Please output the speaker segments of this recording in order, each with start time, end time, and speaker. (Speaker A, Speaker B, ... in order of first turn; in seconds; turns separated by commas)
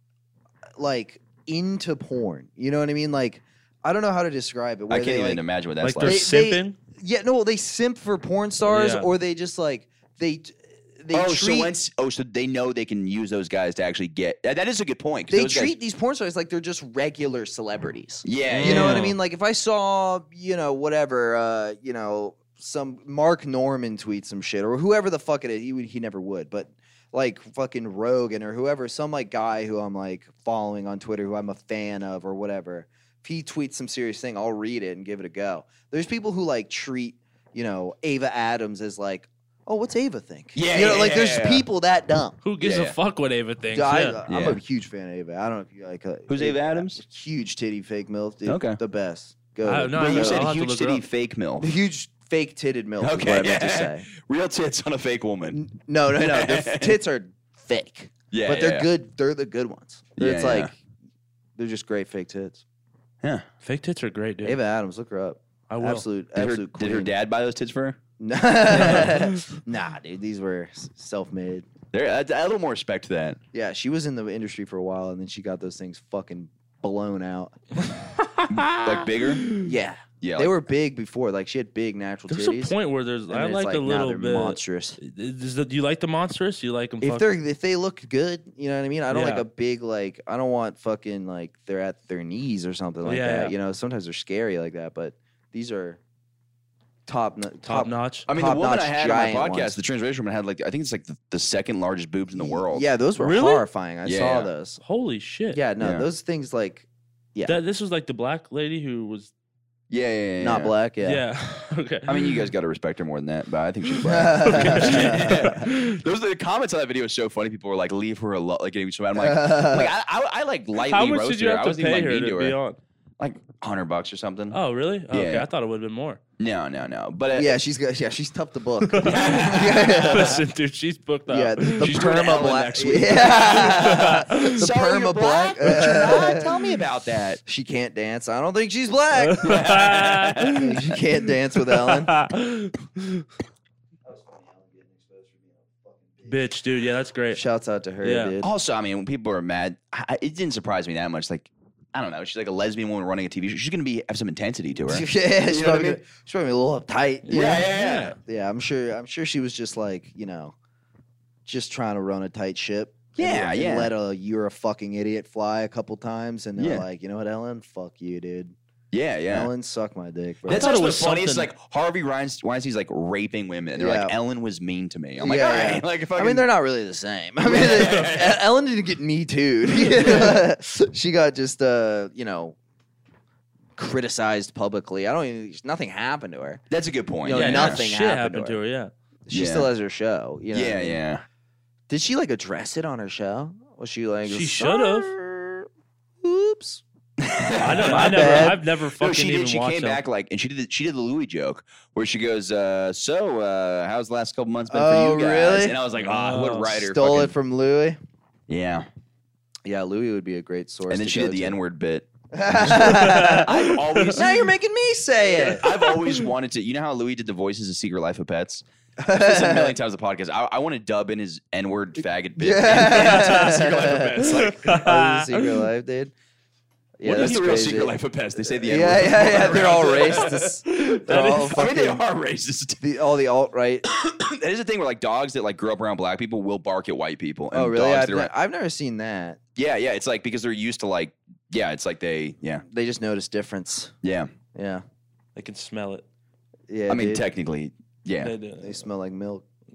Speaker A: 0.8-5.4, Speaker B: 4.9-6.2, Speaker C: 5.8-6.8, Speaker A: 6.0-11.7, Speaker C: 8.6-9.1, Speaker B: 11.1-15.7, Speaker A: 15.3-42.4, Speaker B: 18.2-19.1, Speaker C: 18.4-19.1, Speaker B: 40.5-41.6, Speaker C: 42.4-44.2, Speaker B: 42.6-42.9, Speaker A: 43.7-50.5, Speaker B: 44.3-44.6, Speaker B: 46.3-47.0, Speaker B: 48.5-48.8, Speaker C: 49.6-51.0, Speaker B: 49.9-51.7, Speaker A: 51.6-54.1, Speaker B: 53.0-55.6, Speaker A: 55.5-60.7, Speaker B: 56.1-57.0, Speaker B: 58.3-58.9, Speaker B: 60.2-60.7, Speaker A: 61.5-62.6, Speaker C: 63.6-64.6, Speaker A: 64.4-67.1, Speaker C: 65.7-66.0, Speaker B: 66.3-68.0, Speaker A: 68.2-71.7, Speaker B: 68.7-69.3, Speaker B: 71.9-73.4, Speaker A: 73.5-77.6, Speaker C: 78.2-79.7, Speaker B: 78.5-79.6, Speaker A: 79.6-82.7, Speaker B: 80.2-80.5, Speaker C: 82.3-87.2, Speaker A: 83.3-85.0, Speaker A: 87.0-96.0, Speaker C: 89.1-89.4, Speaker C: 93.0-93.5, Speaker A: 97.1-99.8, Speaker C: 97.7-98.3, Speaker B: 98.3-102.8, Speaker A: 102.3-104.8, Speaker C: 103.1-103.7, Speaker B: 104.0-104.5, Speaker C: 104.8-105.6, Speaker A: 105.5-107.6, Speaker B: 105.8-106.1, Speaker C: 107.4-109.3, Speaker B: 109.9-110.7, Speaker A: 110.4-111.2, Speaker C: 111.0-112.5, Speaker B: 112.1-122.6, Speaker A: 114.0-115.6, Speaker C: 114.5-115.9, Speaker A: 119.1-119.9, Speaker C: 120.8-122.8, Speaker B: 123.2-124.6, Speaker C: 124.5-126.2, Speaker B: 125.1-125.5, Speaker B: 126.4-127.5, Speaker A: 127.3-130.4, Speaker C: 128.9-131.9, Speaker B: 129.0-130.4, Speaker A: 131.3-136.8, Speaker B: 131.8-137.4, Speaker C: 133.6-134.6, Speaker C: 135.6-136.4, Speaker A: 137.4-139.7, Speaker C: 139.2-140.8, Speaker B: 139.4-140.7, Speaker A: 140.5-142.1, Speaker C: 141.7-143.2, Speaker A: 144.0-146.5, Speaker C: 146.3-147.4, Speaker A: 147.3-148.5, Speaker C: 148.0-148.3, Speaker B: 148.4-156.0, Speaker A: 154.8-160.5, Speaker B: 157.3-158.1, Speaker C: 157.5-158.2, Speaker A: 161.4-168.5, Speaker B: 163.2-163.9, Speaker B: 166.6-166.8, Speaker B: 168.9-169.5, Speaker A: 169.3-170.7, Speaker C: 170.4-171.5, Speaker B: 170.5-176.4, Speaker A: 173.8-174.1, Speaker A: 175.2-182.6, Speaker B: 177.4-178.4, Speaker B: 180.1-180.3, Speaker A: 183.8-186.6, Speaker B: 186.7-187.8, Speaker A: 187.2-188.6, Speaker C: 187.3-188.9, Speaker A: 189.3-191.0, Speaker B: 189.3-189.7, Speaker B: 190.5-191.2, Speaker A: 191.9-195.7, Speaker C: 194.3-195.1, Speaker A: 196.2-196.8, Speaker B: 197.2-207.3, Speaker C: 197.6-200.0, Speaker A: 197.7-198.6, Speaker A: 204.7-205.8, Speaker C: 206.0-206.8, Speaker A: 206.8-208.0, Speaker B: 208.5-208.8, Speaker A: 209.7-211.6, Speaker B: 210.9-214.4, Speaker A: 212.3-213.5, Speaker C: 212.7-214.1, Speaker A: 214.1-215.7, Speaker B: 215.3-224.6, Speaker C: 215.6-216.1, Speaker A: 219.0-219.8, Speaker A: 222.4-226.1, Speaker C: 222.7-225.6, Speaker A: 227.0-228.0, Speaker B: 227.0-232.8, Speaker A: 228.6-232.0, Speaker C: 231.1-231.4, Speaker A: 232.8-233.8, Speaker B: 233.9-238.3, Speaker A: 237.5-239.4, Speaker B: 239.6-242.6, Speaker A: 242.6-243.9, Speaker B: 244.0-244.3, Speaker A: 244.5-244.8, Speaker C: 245.3-246.0, Speaker A: 246.7-247.2, Speaker B: 246.9-248.3, Speaker C: 248.2-248.8, Speaker A: 248.6-249.4